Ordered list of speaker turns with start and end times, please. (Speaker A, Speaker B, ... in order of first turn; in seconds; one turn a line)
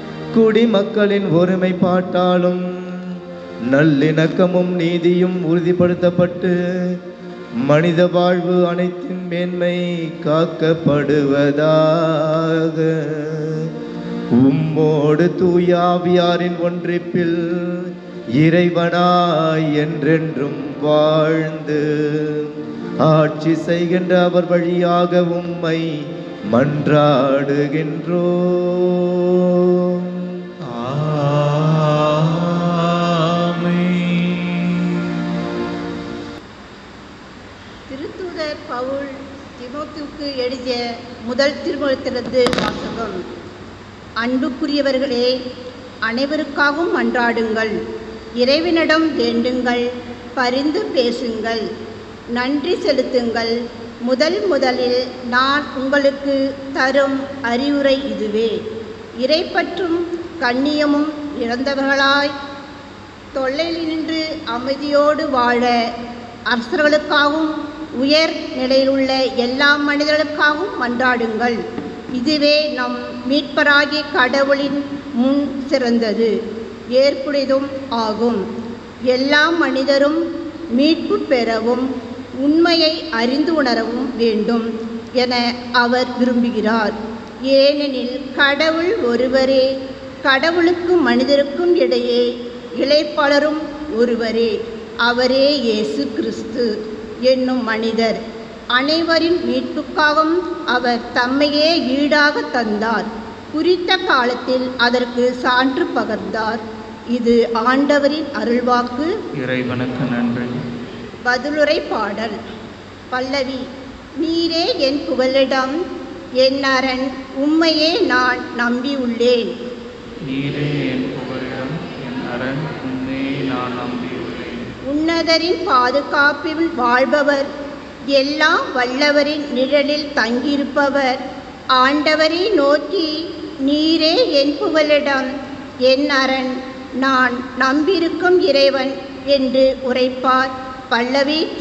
Speaker A: 0.3-3.1
Speaker A: 3.7-7.0
Speaker A: 7.7-13.7
Speaker A: 14.4-22.5
Speaker A: 23.0-25.9
Speaker A: 26.5-30.3
Speaker B: 30.6-35.2
Speaker C: 37.9-43.2
Speaker C: 44.2-45.4
Speaker C: 46.1-47.7
Speaker C: 48.4-49.9
Speaker C: 50.4-51.6
Speaker C: 52.3-53.5
Speaker C: 54.1-58.5
Speaker C: 59.2-62.3
Speaker C: 63.4-65.7
Speaker C: 66.5-71.6
Speaker C: 72.2-76.3
Speaker C: 77.0-78.4
Speaker C: 79.1-80.2
Speaker C: 80.8-81.9
Speaker C: 82.4-87.0
Speaker C: 87.5-89.7
Speaker C: 90.2-92.3
Speaker C: 92.8-94.5
Speaker C: 95.0-96.7
Speaker C: 97.3-98.2
Speaker C: 98.8-106.6
Speaker C: 107.1-109.1
Speaker B: 109.4-110.6
Speaker C: 111.3-112.4
Speaker C: 113.1-113.7
Speaker C: 114.2-115.8
Speaker C: 116.4-119.5
Speaker B: 120.3-124.7
Speaker C: 124.9-127.5
Speaker C: 128.1-131.2
Speaker C: 131.8-133.1
Speaker C: 133.7-135.3
Speaker C: 135.9-141.5